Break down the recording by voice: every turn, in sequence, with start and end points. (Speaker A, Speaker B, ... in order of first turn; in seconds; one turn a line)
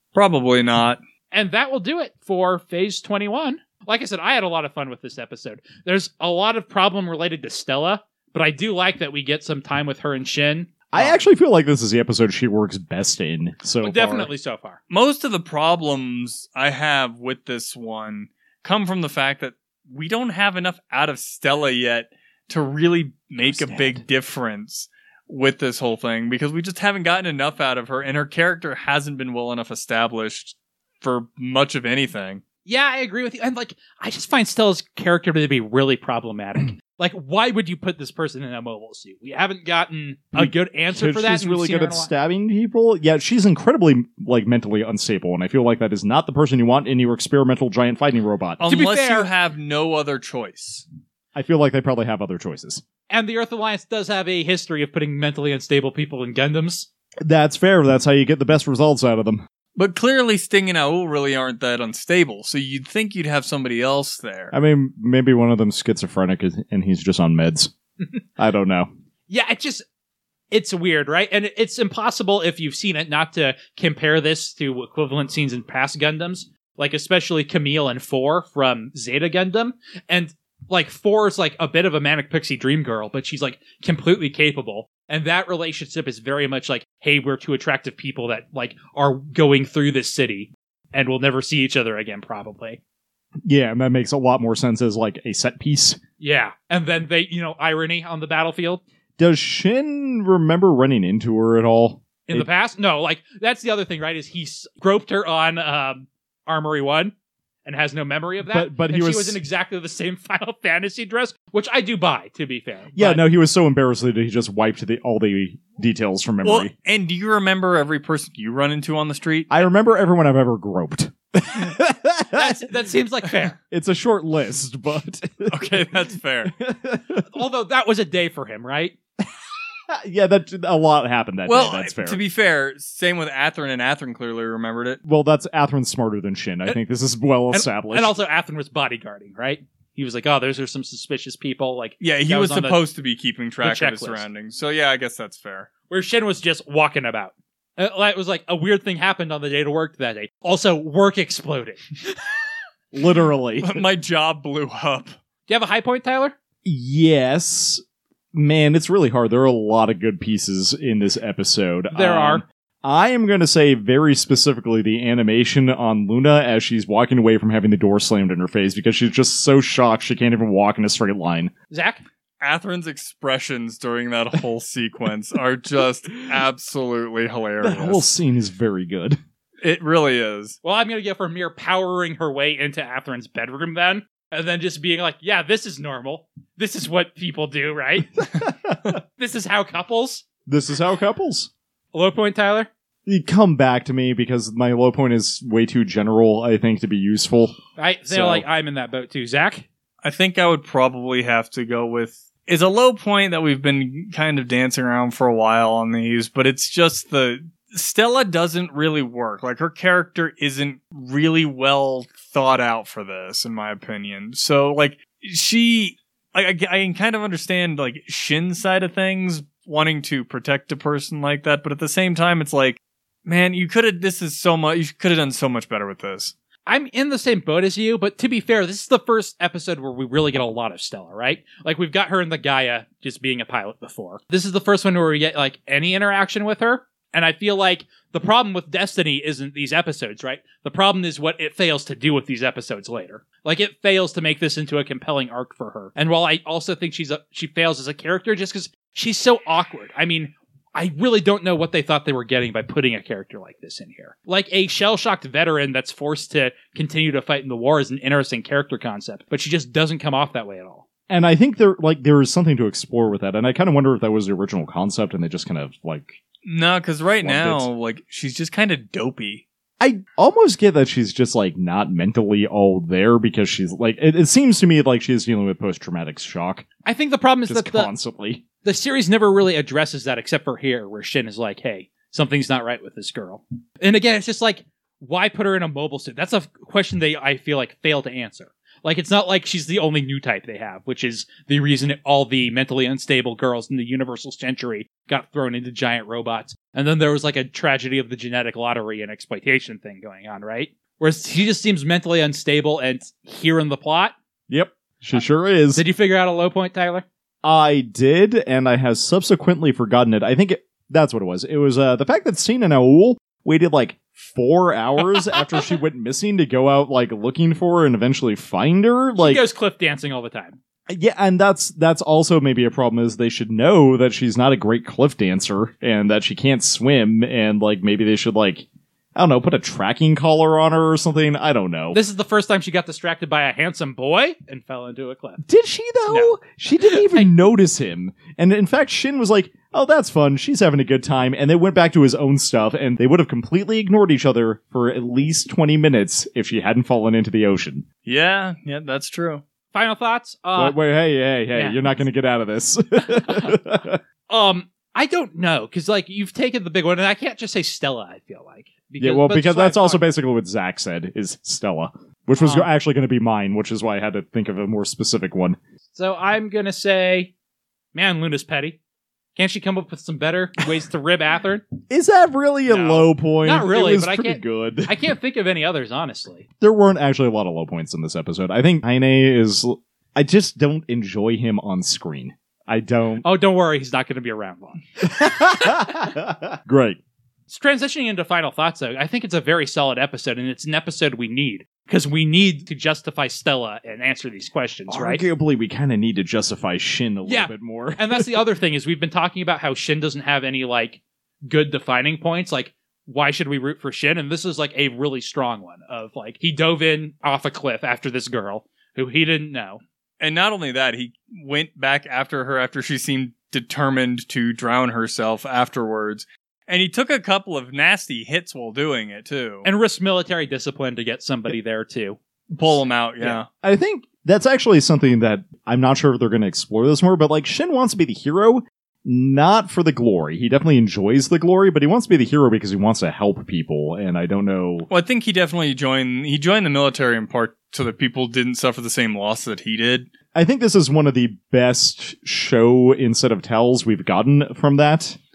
Speaker A: 0.1-1.0
Speaker B: 1.3-11.2
Speaker C: 10.9-14.3
Speaker B: 13.8-14.8
Speaker A: 14.9-32.4
Speaker C: 23.4-24.0
Speaker B: 32.7-42.1
Speaker C: 40.3-48.7
Speaker A: 48.6-50.9
Speaker B: 48.7-49.3
Speaker C: 51.4-52.8
Speaker B: 53.1-56.9
Speaker C: 57.2-59.5
Speaker A: 59.8-64.5
Speaker C: 64.5-67.7
Speaker C: 68.4-68.9
Speaker B: 69.3-69.8
Speaker B: 70.5-92.8
Speaker C: 93.5-96.0
Speaker B: 96.2-98.8
Speaker C: 99.2-102.5
Speaker B: 102.3-107.1
Speaker B: 107.7-113.2
Speaker C: 108.4-109.4
Speaker C: 113.0-116.7
Speaker A: 116.4-119.6
Speaker C: 119.5-122.7
Speaker B: 122.3-123.6
Speaker C: 123.7-127.3
Speaker A: 125.5-126.5
Speaker B: 127.3-128.9
Speaker C: 129.9-132.2
Speaker A: 131.5-135.0
Speaker C: 135.1-138.2
Speaker B: 137.5-142.8
Speaker A: 142.0-145.7
Speaker B: 143.6-144.3
Speaker B: 145.9-152.2
Speaker C: 152.9-153.8
Speaker A: 153.6-155.1
Speaker B: 155.5-156.4
Speaker C: 156.7-157.8
Speaker C: 158.3-171.5
Speaker B: 161.9-162.4
Speaker B: 171.7-172.0
Speaker A: 172.4-178.1
Speaker C: 177.6-179.2
Speaker A: 179.6-180.6
Speaker B: 180.6-188.3
Speaker C: 188.2-188.9
Speaker B: 189.2-190.2
Speaker C: 190.5-191.5
Speaker B: 191.9-192.7
Speaker C: 193.1-198.5
Speaker B: 197.8-199.7
Speaker A: 200.0-226.3
Speaker B: 226.7-260.8
Speaker C: 261.1-266.2
Speaker A: 266.4-269.4
Speaker C: 267.2-267.7
Speaker C: 269.8-276.7
Speaker B: 276.9-277.9
Speaker C: 277.5-278.4
Speaker B: 278.6-304.1
Speaker C: 304.5-305.8
Speaker B: 305.8-307.1
Speaker C: 307.4-319.4
Speaker B: 315.2-315.7
Speaker B: 319.2-320.6
Speaker C: 320.9-332.0
Speaker B: 331.9-335.4
Speaker C: 335.5-347.9
Speaker B: 336.1-337.3
Speaker A: 348.1-349.4
Speaker B: 349.7-350.8
Speaker C: 350.6-354.0
Speaker B: 351.5-351.8
Speaker B: 353.1-353.6
Speaker B: 354.3-360.1
Speaker C: 359.0-365.6
Speaker B: 362.4-362.7
Speaker B: 365.9-367.3
Speaker B: 367.9-368.8
Speaker B: 369.4-371.6
Speaker C: 371.9-374.9
Speaker B: 372.7-376.5
Speaker C: 376.6-383.2
Speaker B: 383.2-386.1
Speaker C: 385.1-387.0
Speaker B: 387.5-395.2
Speaker C: 394.9-398.4
Speaker B: 397.2-409.8
Speaker A: 410.2-419.7
Speaker B: 419.6-422.2
Speaker A: 422.5-423.5
Speaker C: 423.3-434.9
Speaker A: 434.9-440.1
Speaker C: 440.4-445.2